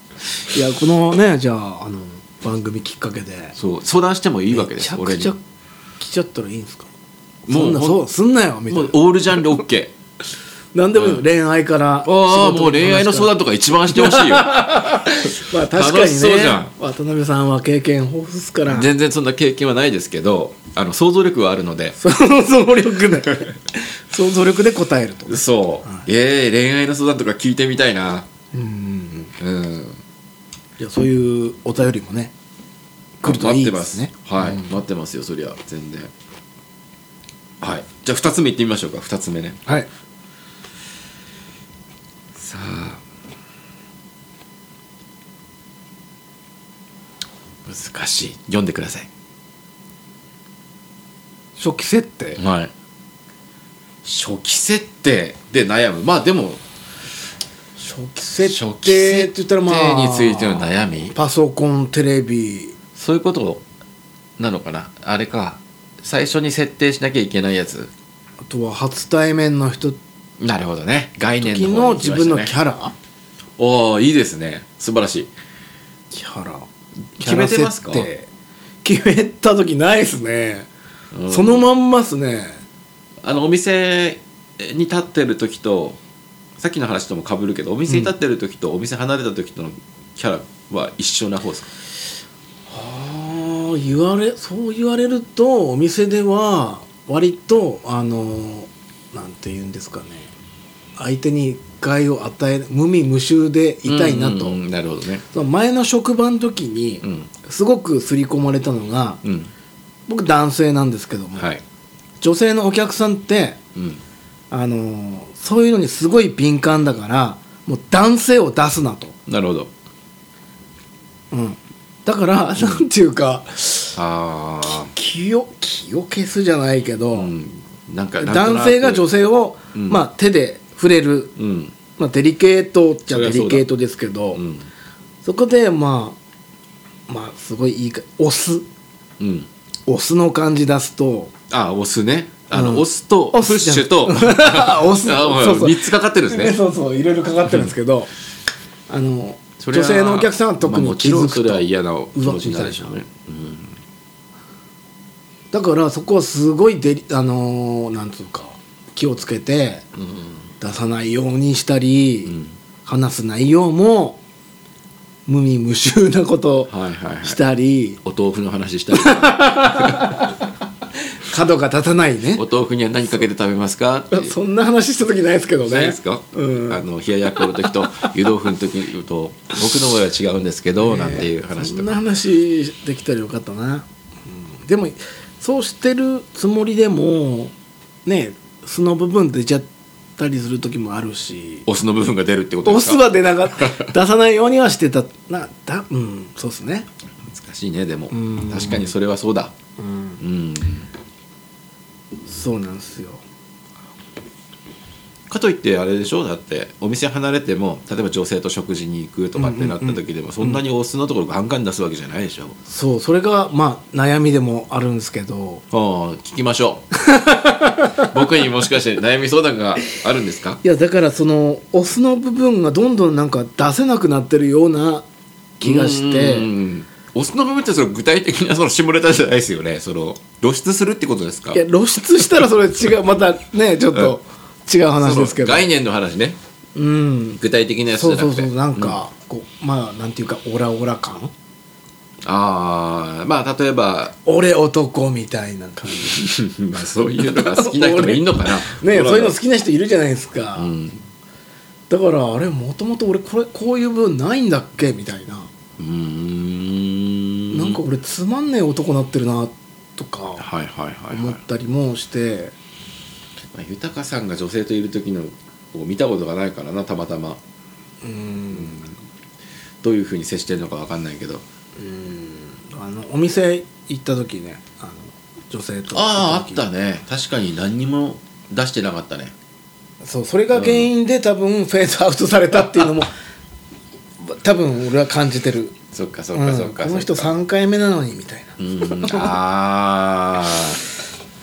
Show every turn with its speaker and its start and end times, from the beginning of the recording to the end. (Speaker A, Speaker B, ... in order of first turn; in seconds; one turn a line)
Speaker A: 0.4-3.6
Speaker B: 3.5-5.3
Speaker A: 4.5-5.4
Speaker A: 6.0-6.9
Speaker B: 7.5-8.0
Speaker A: 7.5-9.5
Speaker B: 8.7-9.9
Speaker A: 10.7-13.3
Speaker B: 10.9-11.2
Speaker B: 12.0-16.7
Speaker A: 13.9-18.9
Speaker B: 18.6-21.9
Speaker A: 22.0-26.0
Speaker B: 25.3-28.3
Speaker A: 28.5-29.3
Speaker B: 29.4-30.0
Speaker A: 30.8-32.3
Speaker A: 33.2-34.7
Speaker B: 33.2-36.1
Speaker B: 37.6-39.6
Speaker B: 42.3-43.0
Speaker B: 47.6-49.1
Speaker A: 51.6-52.4
Speaker B: 52.4-52.7
Speaker B: 54.0-56.6
Speaker A: 57.8-62.8
Speaker B: 58.4-61.1
Speaker B: 62.9-63.6
Speaker B: 64.4-67.9
Speaker A: 68.4-70.0
Speaker B: 70.4-72.5
Speaker A: 71.4-72.9
Speaker B: 73.6-75.3
Speaker A: 76.1-76.7
Speaker B: 77.2-78.1
Speaker A: 77.2-78.3
Speaker A: 78.8-80.7
Speaker B: 81.1-81.6
Speaker A: 81.3-82.6
Speaker B: 83.2-86.0
Speaker B: 86.6-91.7
Speaker A: 92.7-100.3
Speaker A: 101.0-104.6
Speaker B: 103.8-105.2
Speaker A: 105.3-109.2
Speaker B: 107.0-107.3
Speaker B: 109.2-109.5
Speaker A: 110.1-111.5
Speaker B: 111.4-111.6
Speaker A: 112.2-113.6
Speaker B: 113.7-114.0
Speaker A: 114.5-119.2
Speaker B: 119.3-119.7
Speaker A: 121.3-124.0
Speaker B: 122.6-122.8
Speaker B: 124.0-124.9
Speaker A: 124.7-127.3
Speaker B: 127.1-129.1
Speaker A: 128.2-131.3
Speaker B: 129.7-130.0
Speaker B: 131.4-131.7
Speaker A: 132.0-134.4
Speaker B: 133.1-133.7
Speaker B: 134.3-134.7
Speaker A: 135.2-136.2
Speaker A: 137.1-138.7
Speaker B: 139.2-139.5
Speaker A: 139.9-141.3
Speaker B: 141.5-146.6
Speaker A: 142.5-148.1
Speaker A: 148.9-153.0
Speaker B: 149.6-153.8
Speaker A: 155.5-159.8
Speaker B: 159.9-160.4
Speaker A: 160.6-164.2
Speaker B: 162.2-162.6
Speaker A: 165.3-166.7
Speaker B: 166.7-167.4
Speaker A: 167.2-168.0
Speaker B: 168.0-170.3
Speaker A: 168.9-170.4
Speaker A: 171.1-172.4
Speaker B: 172.3-174.3
Speaker A: 174.1-176.8
Speaker B: 175.6-182.0
Speaker A: 177.3-178.1
Speaker A: 180.8-187.5
Speaker A: 188.1-191.7
Speaker B: 191.7-193.9
Speaker A: 192.6-196.9
Speaker B: 197.2-199.5
Speaker A: 198.1-198.9
Speaker A: 199.8-200.2
Speaker B: 200.2-200.9
Speaker A: 202.3-203.2
Speaker B: 205.3-212.6
Speaker A: 209.3-210.6
Speaker A: 212.7-215.6
Speaker B: 215.7-216.8
Speaker A: 216.9-218.2
Speaker B: 218.0-220.6
Speaker A: 220.6-225.1
Speaker A: 225.6-226.5
Speaker B: 225.6-231.6
Speaker A: 231.5-235.7
Speaker B: 235.0-236.4
Speaker A: 236.8-241.3
Speaker B: 237.4-239.0
Speaker B: 242.2-244.2
Speaker A: 244.2-246.3
Speaker B: 245.9-249.4
Speaker A: 247.2-250.7
Speaker B: 250.6-251.0
Speaker A: 251.9-255.5
Speaker B: 255.8-257.8
Speaker A: 257.5-260.4
Speaker B: 260.4-261.4
Speaker A: 261.1-262.5
Speaker B: 263.5-267.4
Speaker A: 268.0-268.9
Speaker B: 269.8-271.4
Speaker A: 271.8-276.6
Speaker B: 275.9-279.3
Speaker A: 280.0-283.1
Speaker B: 280.5-280.9
Speaker A: 284.2-285.8
Speaker B: 285.9-287.3
Speaker A: 286.3-289.3
Speaker B: 288.6-290.8